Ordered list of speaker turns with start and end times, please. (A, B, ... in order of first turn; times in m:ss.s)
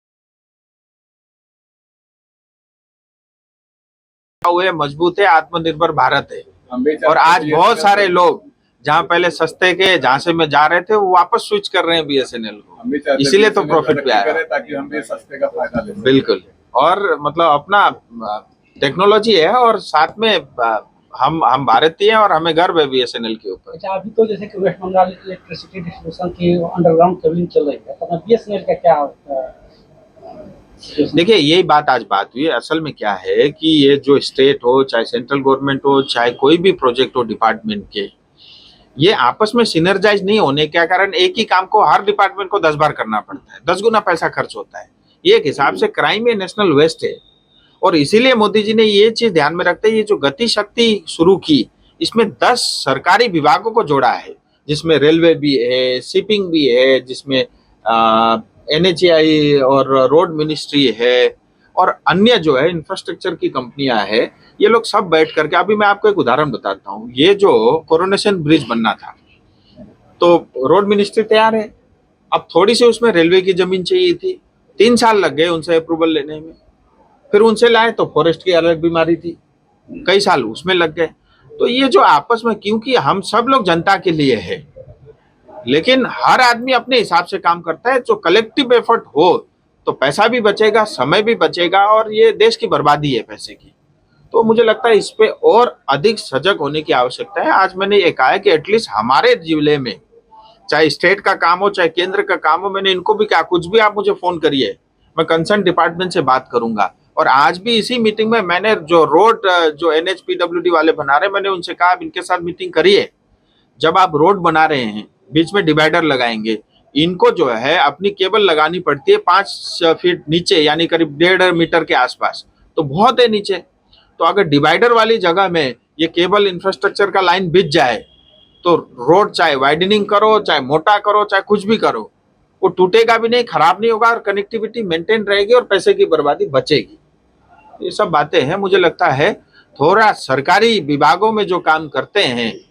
0:04.4-0:06.4 A
0:06.7-0:08.2 B
0:07.0-0:14.4 A
0:12.8-0:16.1 B
0:16.0-0:23.8 A
0:23.7-0:29.5 C
0:30.9-0:31.2 C
0:31.1-0:38.1 A
0:39.0-0:47.2 A
0:47.8-1:09.1 A
1:10.2-1:11.7 A
1:12.3-1:16.5 A
1:17.3-1:19.4 A
1:20.0-1:24.6 A
1:25.7-1:33.7 A
1:34.3-1:40.0 A
1:40.7-1:53.1 A
1:53.8-2:03.6 A
2:04.2-2:08.0 A
2:08.6-2:12.1 A
2:12.6-2:17.0 A
2:17.8-2:22.6 A